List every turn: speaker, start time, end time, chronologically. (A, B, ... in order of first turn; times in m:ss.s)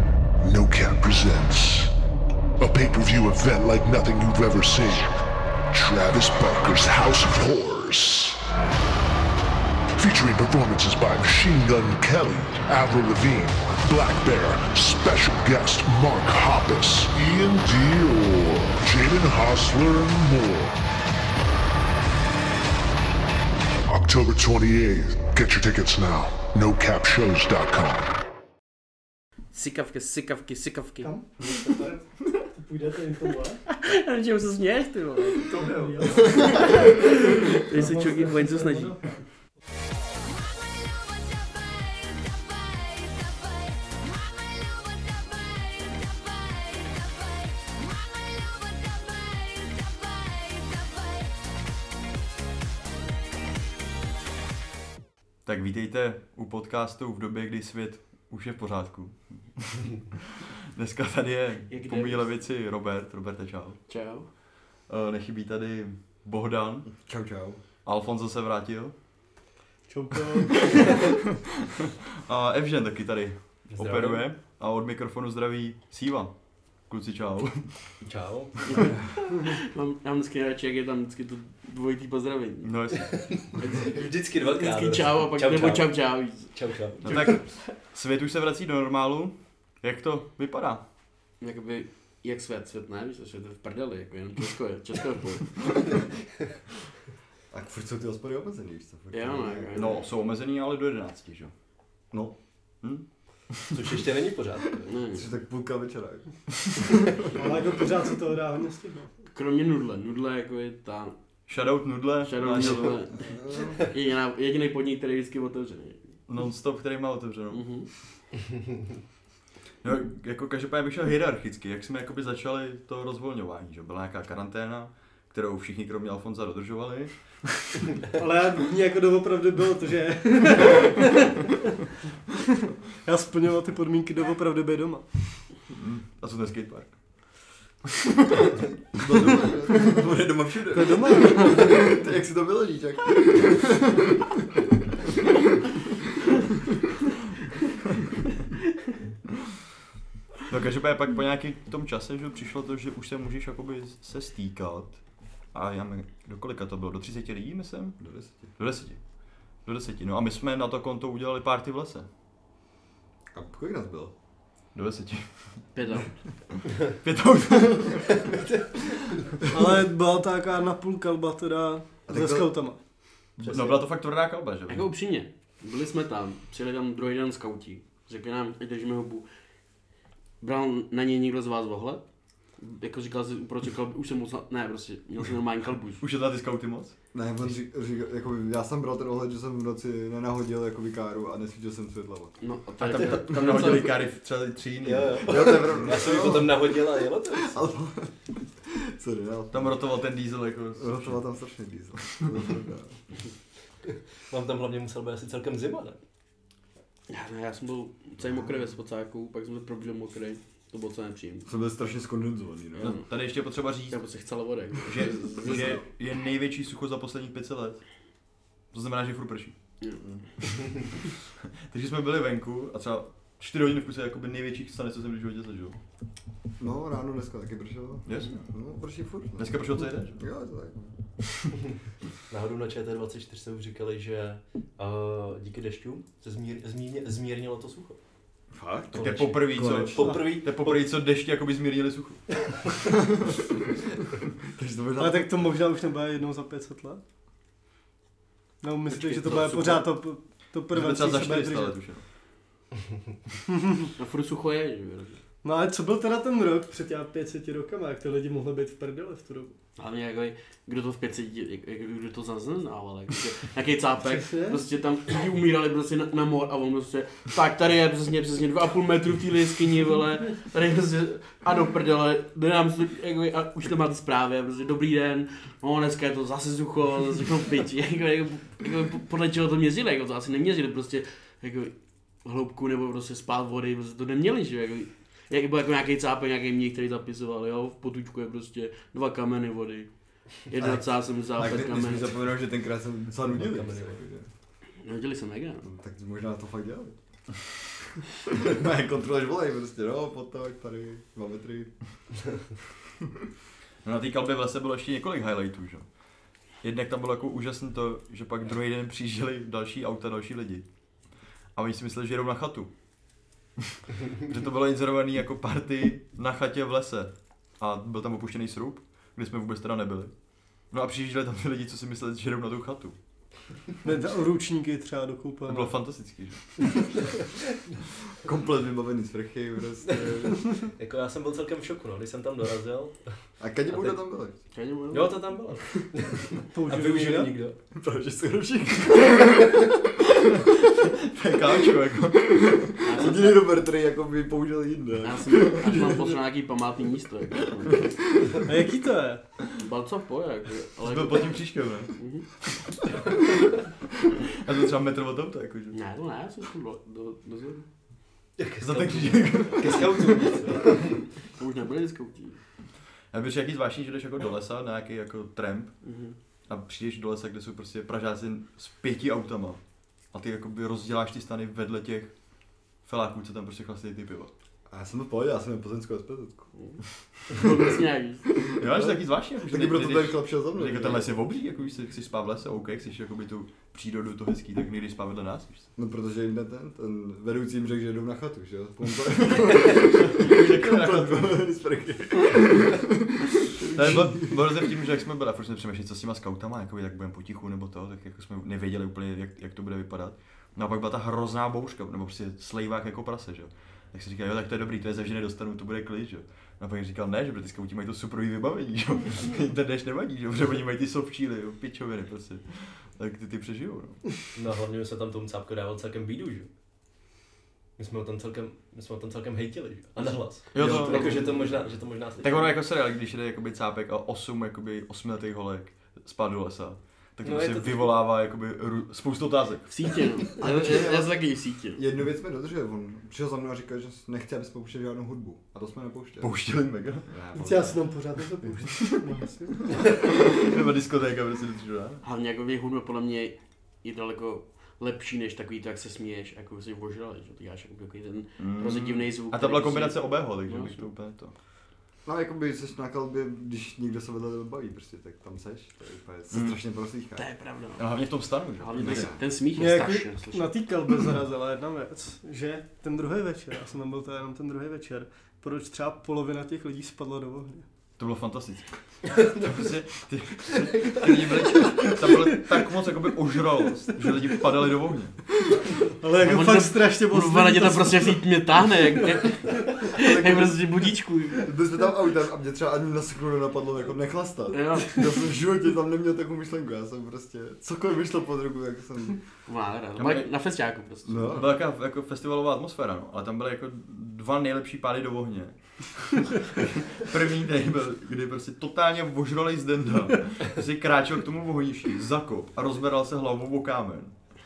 0:00.4-0:01.9 A
0:02.6-0:08.5 A
0:10.0-0:20.8 A
0:23.9-0:28.1 A
0:29.5-0:31.4 B
0:31.0-0:33.6 C
0:33.7-0:35.6 B
0:35.4-0:39.2 C
0:35.5-0:36.2 D
0:36.2-0:39.0 B
0:55.4-1:00.2 D
1:00.7-1:03.8 D
1:01.7-1:02.4 B
1:03.9-1:04.3 B
1:04.9-1:06.9 D
1:06.9-1:07.6 E
1:07.8-1:08.9 D
1:09.9-1:11.2 C
1:10.5-1:11.3 D
1:11.8-1:16.3 D
1:13.7-1:14.2 F
1:16.8-1:17.9 D
1:18.0-1:18.9 F
1:18.7-1:26.5 B
1:22.6-1:23.1 D
1:23.1-1:27.4 F
1:27.0-1:30.8 D
1:31.4-1:35.7 B
1:37.5-1:40.0 E
1:39.1-1:40.0 B
1:39.7-1:41.5 D
1:42.1-1:42.4 E
1:42.8-1:43.8 D
1:43.7-1:44.9 F
1:44.9-1:45.3 B
1:45.1-1:47.5 E
1:47.3-1:49.1 C
1:49.3-1:51.2 B
1:51.5-1:53.0 D
1:52.2-1:56.1 B
1:53.1-1:53.8 E
1:56.3-1:57.7 D
1:57.5-1:57.9 B
1:59.8-2:08.0 D
2:08.1-2:11.5 C
2:13.0-2:15.4 C
2:15.7-2:17.0 D
2:19.0-2:25.3 E
2:19.0-2:21.3 D
2:20.7-2:22.0 C
2:30.5-2:35.0 D
2:35.5-2:39.0 D
2:38.0-2:38.6 E
2:39.6-2:42.1 D
2:43.3-2:44.1 E
2:44.7-2:45.7 D
2:45.7-2:46.1 B
2:46.5-2:48.2 D
2:48.1-2:49.2 F
2:49.5-2:52.8 C
2:52.1-2:52.6 E
2:53.4-2:54.9 D
2:53.4-2:53.7 F
2:54.7-2:59.2 B
3:00.4-3:02.0 B
3:02.6-3:06.0 B
3:06.0-3:07.0 D
3:07.1-3:12.4 E
3:12.4-3:14.0 B
3:12.8-3:16.0 D
3:14.8-3:17.6 F
3:15.3-3:19.8 E
3:19.5-3:21.2 D
3:20.8-3:23.0 E
3:24.3-3:26.0 F
3:27.1-3:31.5 B
3:28.2-3:28.6 E
3:31.4-3:33.0 E
3:32.8-3:33.2 B
3:32.8-3:34.1 D
3:33.9-3:35.8 B
3:34.8-3:37.8 D
3:35.4-3:35.8 E
3:38.7-3:39.5 D
3:39.8-3:40.0 B
3:41.7-3:45.8 D
3:46.6-3:49.6 E
3:48.0-3:48.4 D
3:49.4-3:50.2 D
3:50.1-3:50.8 E
3:52.3-3:58.0 F
3:58.5-4:00.2 E
3:58.9-4:02.2 D
3:59.7-4:00.9 F
4:04.5-4:05.5 E
4:05.0-4:07.0 C
4:08.6-4:11.8 C
4:08.9-4:09.7 B
4:09.3-4:09.8 D
4:10.7-4:12.0 D
4:14.0-4:15.2 B
4:15.4-4:19.5 C
4:19.8-4:52.2 B
4:24.0-4:24.6 C
4:50.6-4:54.3 E
4:53.2-4:54.0 F
4:54.8-4:55.7 B
4:55.6-4:56.9 E
4:58.3-5:01.7 E
5:03.8-5:05.8 D
5:06.6-5:10.6 D
5:11.5-5:12.7 D
5:14.2-5:23.0 D
5:23.8-5:25.8 C
5:25.4-5:26.9 D
5:28.2-5:30.4 E
5:29.9-5:33.1 F
5:33.4-5:34.3 E
5:33.7-5:34.0 F
5:34.5-5:35.3 B
5:34.9-5:37.6 F
5:36.5-5:37.3 C
5:37.7-5:40.0 E
5:41.0-5:42.6 D
5:42.2-5:46.2 E
5:42.8-5:43.5 B
5:45.0-5:48.0 B
5:48.4-5:49.2 C
5:49.6-5:52.2 B
5:50.8-5:51.9 D
5:54.2-5:55.8 D
5:55.7-5:57.7 B
5:58.4-6:01.0 F
5:58.6-6:00.3 D
6:01.2-6:02.4 B
6:03.1-6:05.7 D
6:05.8-6:06.2 B
6:06.5-6:09.6 D
6:10.1-6:12.1 D
6:12.8-6:14.3 D
6:14.7-6:16.5 E
6:16.5-6:18.3 B
6:18.6-6:21.1 E
6:18.6-6:25.7 D
6:25.8-6:34.7 E
6:29.7-6:31.4 D
6:33.6-6:54.1 D
6:54.3-6:56.5 F
6:57.8-7:02.6 F
7:00.5-7:01.7 D
7:00.6-7:01.2 B
7:02.2-7:09.9 D
7:07.2-7:07.9 F
7:09.7-7:11.8 B
7:10.4-7:11.2 E
7:11.7-7:16.4 E
7:16.2-7:17.1 D
7:17.0-7:17.8 E
7:17.3-7:19.7 C
7:19.8-7:22.0 D
7:22.0-7:30.9 B
7:28.4-7:31.3 D
7:32.0-7:37.2 E
7:36.3-7:36.6 D
7:37.2-7:37.9 B
7:37.8-7:39.1 D
7:38.5-7:40.5 B
7:38.7-7:39.2 E
7:39.6-7:47.6 C
7:48.0-7:48.7 D
7:49.1-7:49.7 F
7:49.2-7:55.2 D
7:50.4-7:51.7 F
7:56.0-7:58.2 C
7:56.2-8:01.5 B
8:00.0-8:00.8 E
8:01.4-8:09.2 E
8:04.5-8:05.1 B
8:09.4-8:11.4 B
8:10.0-8:10.3 D
8:11.0-8:11.5 E
8:11.3-8:24.2 D